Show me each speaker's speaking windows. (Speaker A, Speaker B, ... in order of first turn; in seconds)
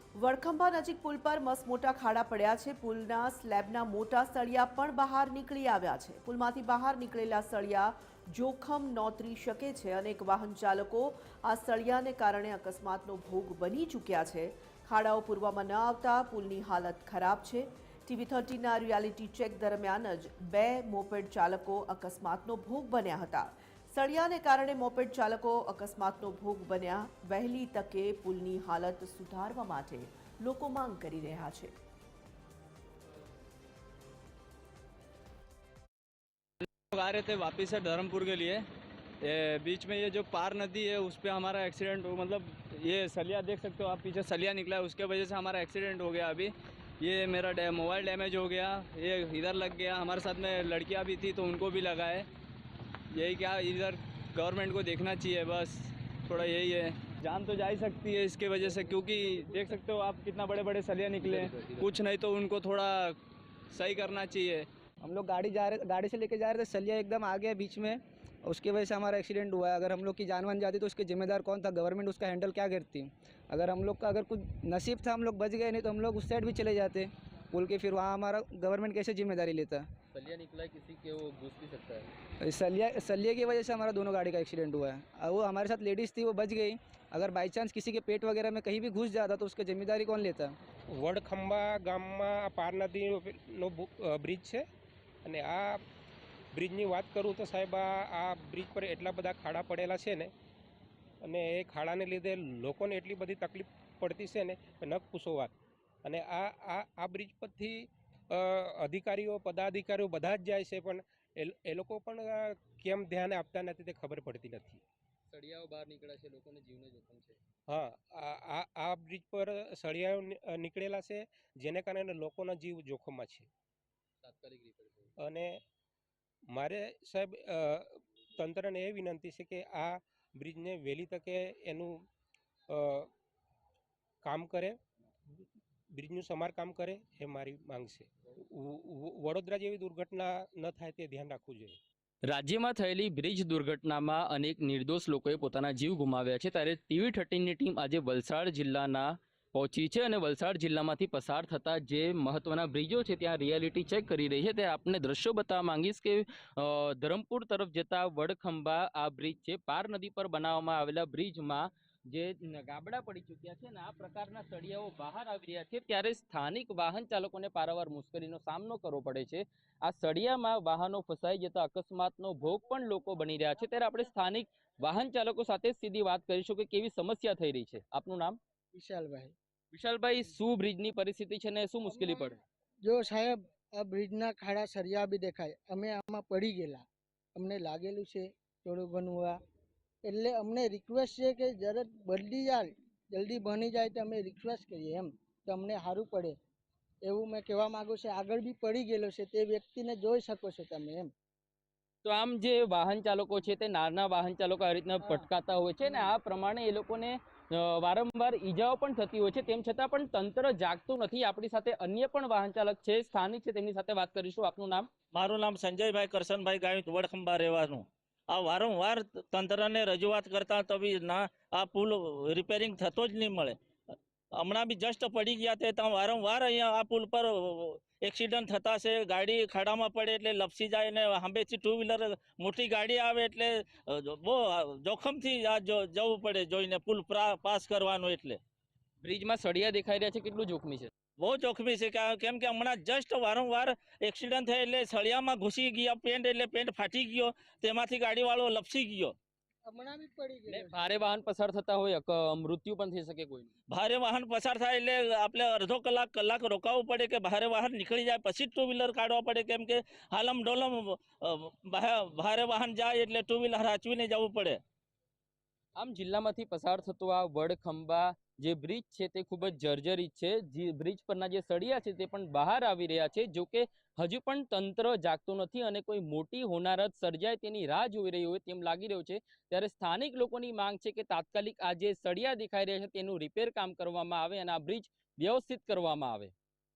Speaker A: 0.1-31.7
Speaker B: 36.9-38.7, 39.2-52.3, 53.1-63.2, 63.7-64.7
Speaker C: 65.0-79.9, 82.4-90.5
Speaker D: 80.1-82.1, 115.3-117.4, 124.2-125.1, 142.2-178.4, 179.7-182.4, 202.0-214.9, 239.0-240.9, 250.5-253.5, 265.8-286.3
Speaker E: 90.9-94.6, 95.2-95.8, 96.5-100.3, 101.2-114.8, 117.7-123.5, 125.2-125.6, 126.5-132.0, 132.7-133.1, 134.2-134.8, 135.9-141.8
Speaker F: 178.7-179.3, 181.9-182.3, 182.8-186.8, 187.3-189.4, 190.0-196.3, 197.0-201.1, 205.0-205.3, 249.7-251.1
Speaker G: 215.1-223.6, 224.3-238.4, 241.2-249.1, 253.7-264.6